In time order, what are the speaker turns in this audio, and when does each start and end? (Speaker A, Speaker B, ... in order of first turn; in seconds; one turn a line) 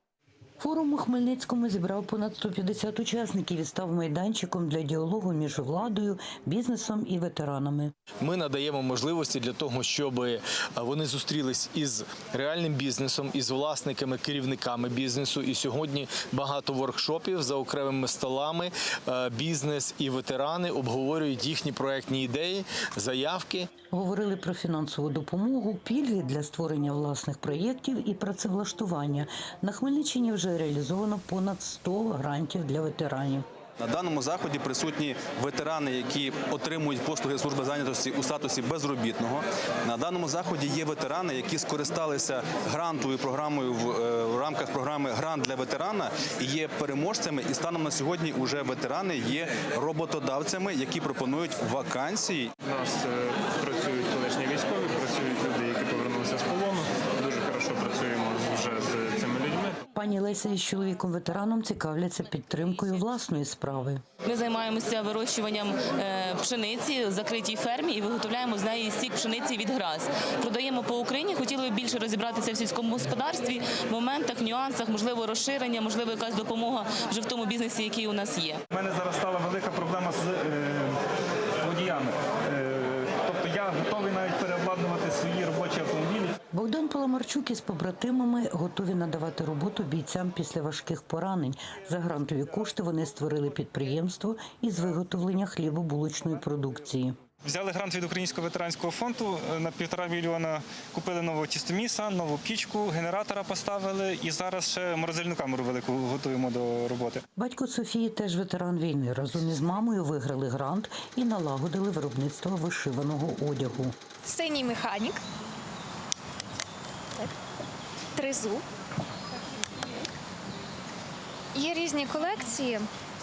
Speaker A: 0.6-7.9
Speaker B: 8.2-23.7
Speaker A: 23.9-33.4
Speaker C: 33.8-52.5
Speaker D: 52.7-59.7
Speaker A: 59.9-64.0
Speaker E: 64.2-78.6
Speaker F: 78.7-80.9
Speaker F: 81.6-86.3
Speaker A: 86.5-97.2
Speaker F: 97.4-107.2
Speaker A: 107.3-114.0
Speaker G: 114.2-115.2
Speaker G: 118.2-118.6
Speaker G: 121.5-122.9